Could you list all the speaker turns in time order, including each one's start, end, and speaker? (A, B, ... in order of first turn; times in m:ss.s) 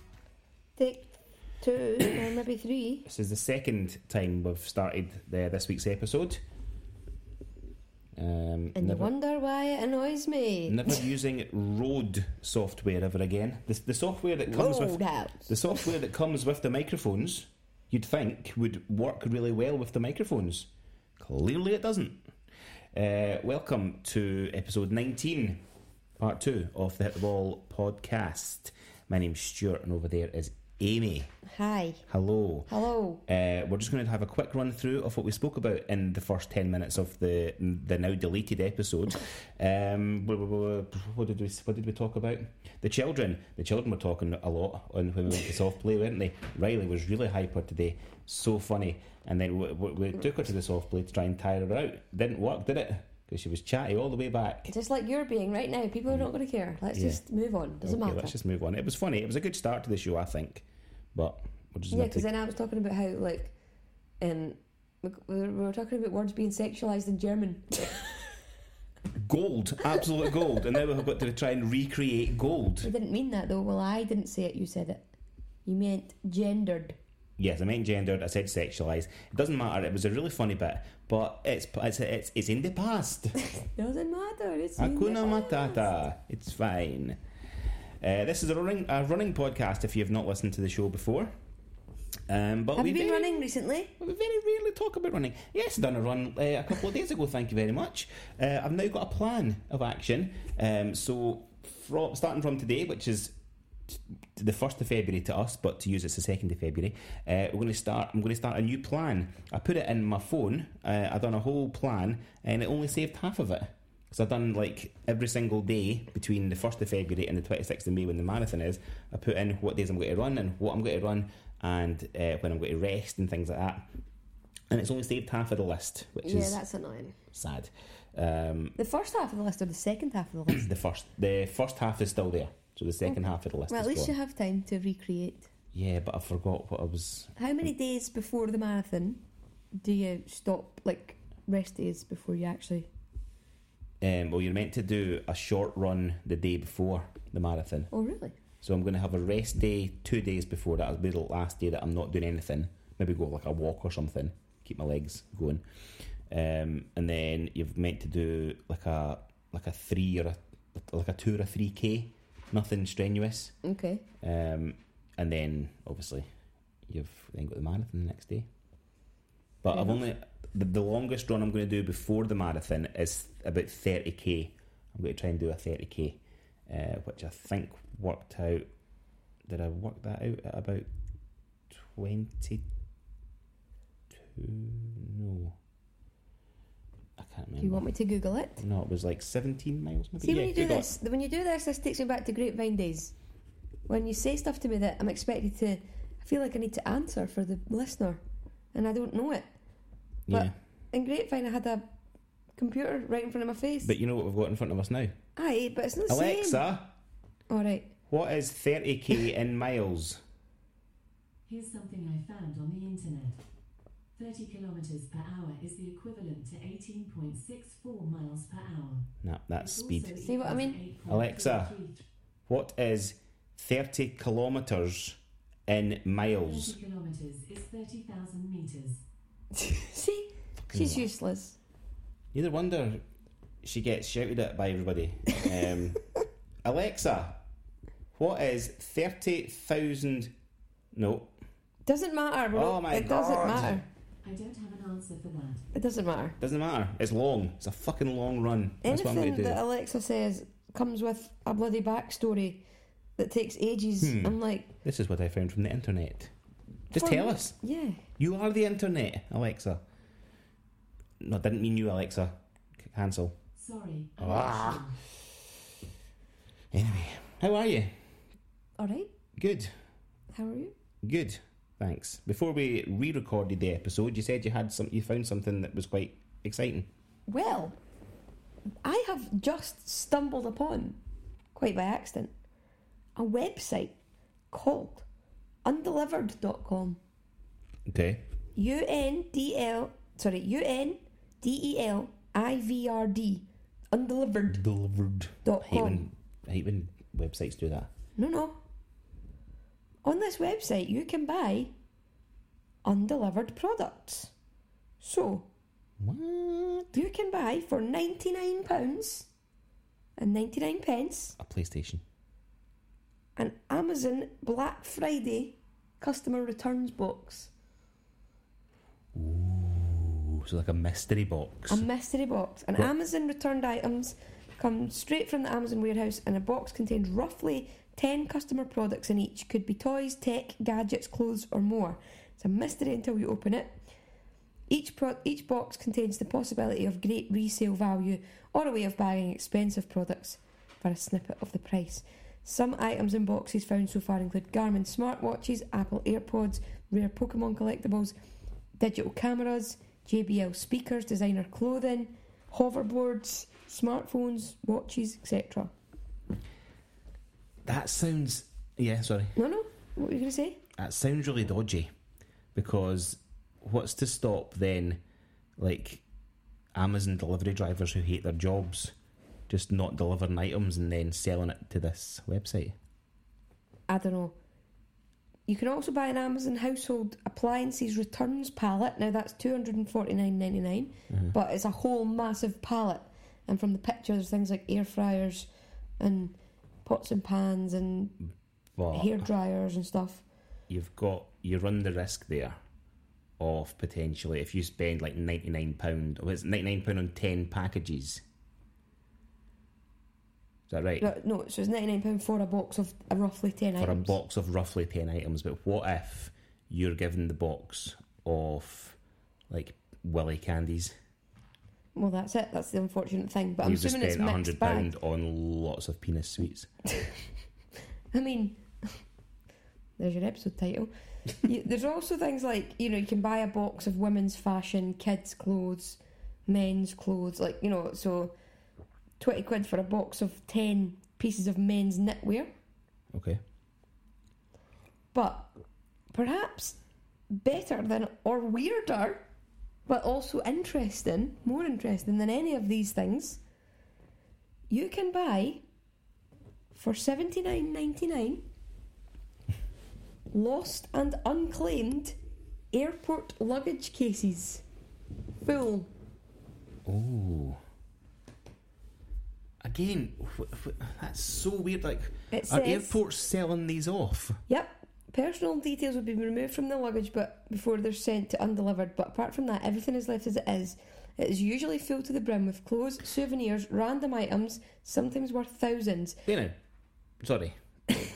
0:00.8-0:03.1 A
0:03.0-0:06.4 B
0:08.2-0:09.1 B
0:08.8-0:11.0 A
0:10.7-0:22.2 B
0:14.5-0:15.8 A
0:22.9-0:25.6 B
0:26.2-0:31.3 B
0:31.4-0:32.0 A
0:32.1-0:32.7 B
0:32.7-0:33.2 A
0:33.3-0:54.7 B
0:54.7-0:58.3 A
0:56.9-0:57.2 B
0:57.8-1:02.3 B
1:01.9-1:03.5 A
1:04.2-1:08.1 A
1:09.2-1:12.9 B
1:12.8-1:15.0 A
1:15.6-1:17.0 A
1:17.4-1:23.4 B
1:23.5-1:25.9 A
1:24.8-1:27.2 B
1:28.0-1:31.3 B
1:32.3-1:33.5 B
1:32.8-1:33.9 A
1:34.0-1:43.4 B
1:43.9-2:03.9 B
2:04.7-2:06.6 B
2:06.2-2:07.2 A
2:07.3-2:08.8 B
2:08.8-2:10.6 A
2:10.5-2:14.1 B
2:13.1-2:15.5 A
2:15.7-2:17.6 B
2:17.4-2:19.2 A
2:19.8-2:22.9 A
2:24.0-2:27.9 B
2:27.9-2:28.4 A
2:28.6-2:35.6 B
2:36.3-2:43.6 B
2:43.6-2:44.0 A
2:44.2-2:46.2 B
2:46.9-2:48.5 B
2:49.6-2:58.7 B
2:49.7-2:50.0 A
2:59.4-3:00.9 B
3:01.7-3:02.6 B
3:04.1-3:05.6 B
3:07.2-3:07.9 B
3:07.6-3:08.6 A
3:08.6-3:10.9 B
3:10.2-3:13.1 A
3:13.9-3:18.2 A
3:18.7-3:19.5 A
3:20.3-3:20.5 B
3:20.3-3:21.8 A
3:22.6-3:23.9 A
3:23.8-3:25.2 B
3:25.4-3:26.6 A
3:26.1-3:26.9 B
3:27.5-3:27.9 A
3:28.1-3:30.2 B
3:31.4-3:33.4 C
3:34.2-3:42.0 C
3:39.2-3:40.2 B
3:40.2-3:40.8 A
3:41.0-3:41.7 B
3:42.5-3:46.7 B
3:46.4-3:49.0 C
3:49.6-3:51.6 A
3:50.7-3:51.1 B
3:52.3-3:53.0 B
3:53.6-3:56.0 B
3:56.6-3:57.4 B
3:58.1-4:00.3 B
4:00.9-4:01.3 B
4:01.8-4:03.8 A
4:02.5-4:03.8 B
4:04.2-4:05.6 C
4:05.7-4:06.4 A
4:06.4-4:09.6 B
4:08.8-4:12.6 A
4:13.2-4:14.7 A
4:14.0-4:16.3 B
4:16.9-4:17.6 B
4:16.9-4:18.0 A
4:18.2-4:19.8 B
4:21.2-4:23.4 B
4:23.6-4:25.0 C
4:24.2-4:24.9 B
4:26.7-4:27.9 B
4:28.8-4:29.1 A
4:29.4-4:29.7 B
4:30.3-4:30.7 A
4:31.0-4:36.9 B
4:37.3-4:37.8 A
4:38.8-4:41.0 A
4:41.5-4:42.3 A
4:43.2-4:43.9 A
4:44.5-4:45.0 A
4:45.6-4:47.0 A
4:47.9-4:48.2 B
4:48.6-4:54.6 A
4:54.5-4:57.9 B
4:55.4-4:56.0 A
4:58.2-4:58.6 A
5:00.0-5:01.7 A
5:02.8-5:04.3 A
5:05.0-5:05.5 A
5:06.0-5:06.9 B
5:06.9-5:09.3 A
5:10.2-5:11.4 A
5:11.4-5:12.0 B
5:13.4-5:17.5 A
5:19.1-5:21.8 B
5:21.7-5:33.8 A
5:34.7-5:48.1 A
5:48.8-5:55.7 A
5:57.6-5:59.3 B
5:59.4-6:00.6 A
6:00.8-6:01.9 B
6:02.5-6:05.0 B
6:05.6-6:06.0 B
6:06.7-6:08.9 B
6:09.5-6:12.8 B
6:13.9-6:14.4 A
6:15.5-6:28.2 A
6:21.1-6:21.3 B
6:28.8-6:29.2 B
6:28.9-6:30.2 A
6:30.7-6:32.6 B
6:33.4-6:38.2 B
6:40.7-6:41.1 B
6:41.0-6:44.1 A
6:43.8-6:49.0 B
6:49.5-6:50.9 B
6:51.9-6:54.9 A
6:53.6-6:56.7 B
6:58.1-6:59.0 A
7:00.0-7:08.4 A
7:09.2-7:12.5 A
7:13.1-7:13.4 B
7:15.1-7:15.5 A
7:16.1-7:16.8 A
7:17.3-7:19.2 A
7:19.9-7:23.4 A
7:24.7-7:25.6 A
7:26.7-7:28.4 A
7:30.3-7:32.2 A
7:32.7-7:34.6 A
7:35.4-7:35.9 A
7:36.8-7:37.6 B
7:39.6-7:44.4 B
7:42.3-7:43.0 A
7:44.5-7:56.2 A
7:56.2-7:56.6 B
7:57.2-7:57.6 B